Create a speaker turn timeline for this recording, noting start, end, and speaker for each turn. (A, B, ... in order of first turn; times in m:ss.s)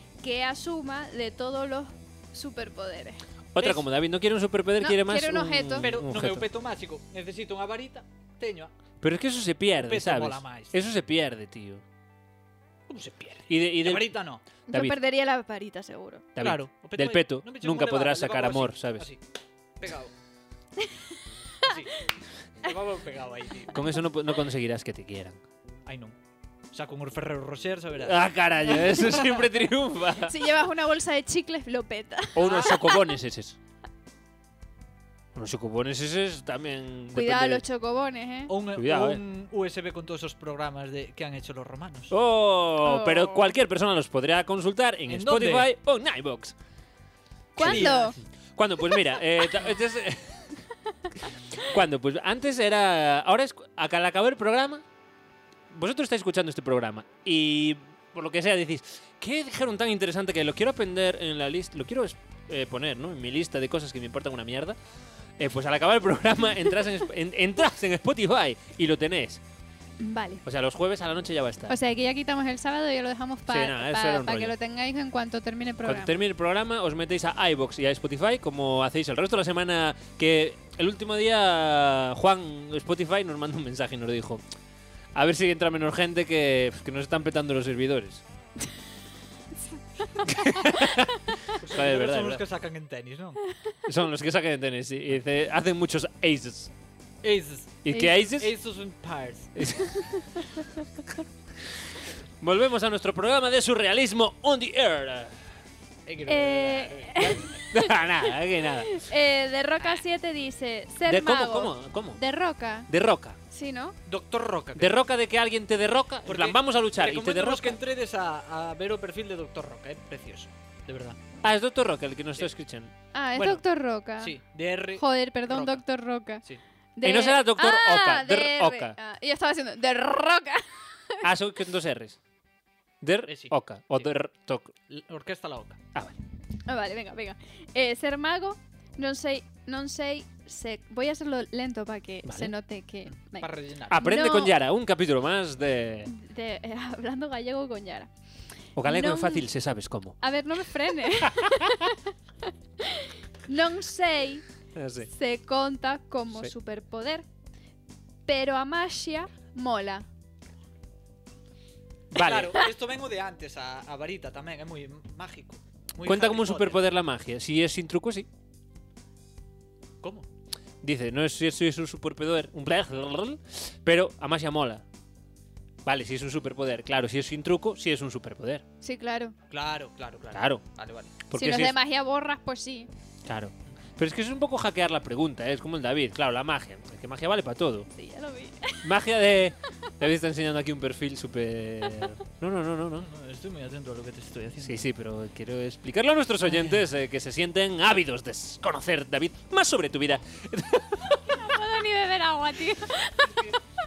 0:00.2-0:03.2 A
0:03.5-0:06.5 B
0:03.6-0:03.8 C
0:04.8-0:05.9 A
0:05.8-0:08.7 C
0:09.0-0:11.8 B
0:09.8-0:10.8 C
0:12.9-0:14.4 C
0:13.5-0:14.1 B
0:14.7-0:16.2 A
0:14.7-0:15.0 B
0:16.4-0:19.1 B
0:16.4-0:19.2 C
0:19.8-0:20.1 C
0:21.6-0:21.9 C
0:22.6-0:23.9 C
0:23.7-0:25.4 B
0:25.8-0:26.1 C
0:26.7-0:28.2 C
0:28.0-0:30.5 B
0:30.2-0:33.0 A
0:32.3-0:33.6 B
0:32.4-0:32.8 C
0:35.3-0:37.6 B
0:37.1-0:38.5 A
0:38.5-0:42.2 C
0:38.7-0:39.2 B
0:42.1-0:46.5 B
0:42.8-0:43.5 A
0:45.1-0:45.7 C
0:47.6-0:48.2 A
0:47.6-0:48.0 B
0:47.6-0:48.2 C
0:48.6-0:50.6 B
0:51.6-0:54.8 B
0:55.7-1:04.8 B
1:05.4-1:09.4 B
1:10.0-1:10.4 A
1:10.4-1:11.8 B
1:11.7-1:16.2 A
1:13.5-1:14.5 B
1:15.8-1:24.4 B
1:25.1-1:28.2 B
1:30.2-1:32.4 B
1:31.6-1:33.4 C
1:33.8-1:36.7 B
1:37.2-1:39.6 C
1:37.8-1:38.5 B
1:39.5-1:40.0 B
1:39.8-1:40.6 A
1:42.4-1:45.4 B
1:46.0-1:47.6 C
1:46.2-1:47.9 A
1:47.7-1:49.0 B
1:48.5-1:52.9 A
1:51.0-1:52.2 B
1:52.9-1:53.4 B
1:53.5-1:54.0 A
1:54.0-1:55.0 C
1:54.8-1:57.8 B
1:56.2-2:01.2 C
2:01.4-2:02.9 B
2:03.1-2:04.4 A
2:03.4-2:03.6 C
2:04.2-2:05.8 C
2:05.0-2:06.4 A
2:07.0-2:10.6 A
2:07.0-2:09.0 B
2:11.2-2:12.2 B
2:13.0-2:14.7 B
2:13.3-2:14.1 C
2:14.9-2:15.8 C
2:16.6-2:24.6 A
2:22.2-2:22.5 B
2:23.4-2:24.0 C
2:23.9-2:26.1 B
2:26.0-2:28.1 A
2:28.8-2:30.2 B
2:28.8-2:29.4 A
2:30.2-2:34.4 A
2:31.2-2:31.9 B
2:34.7-2:35.1 B
2:35.1-2:37.2 A
2:38.3-2:40.0 A
2:42.1-2:42.6 B
2:42.1-2:46.8 C
2:46.0-2:48.3 B
2:50.0-2:50.3 C
2:50.8-2:54.8 B
2:55.8-2:58.6 B
2:58.8-2:59.3 A
2:59.5-3:01.2 C
3:00.3-3:00.6 B
3:01.2-3:01.8 B
3:01.3-3:02.9 A
3:03.2-3:07.9 B
3:07.9-3:08.9 A
3:08.8-3:13.1 B
3:13.0-3:14.8 C
3:14.6-3:21.4 B
3:21.3-3:23.6 A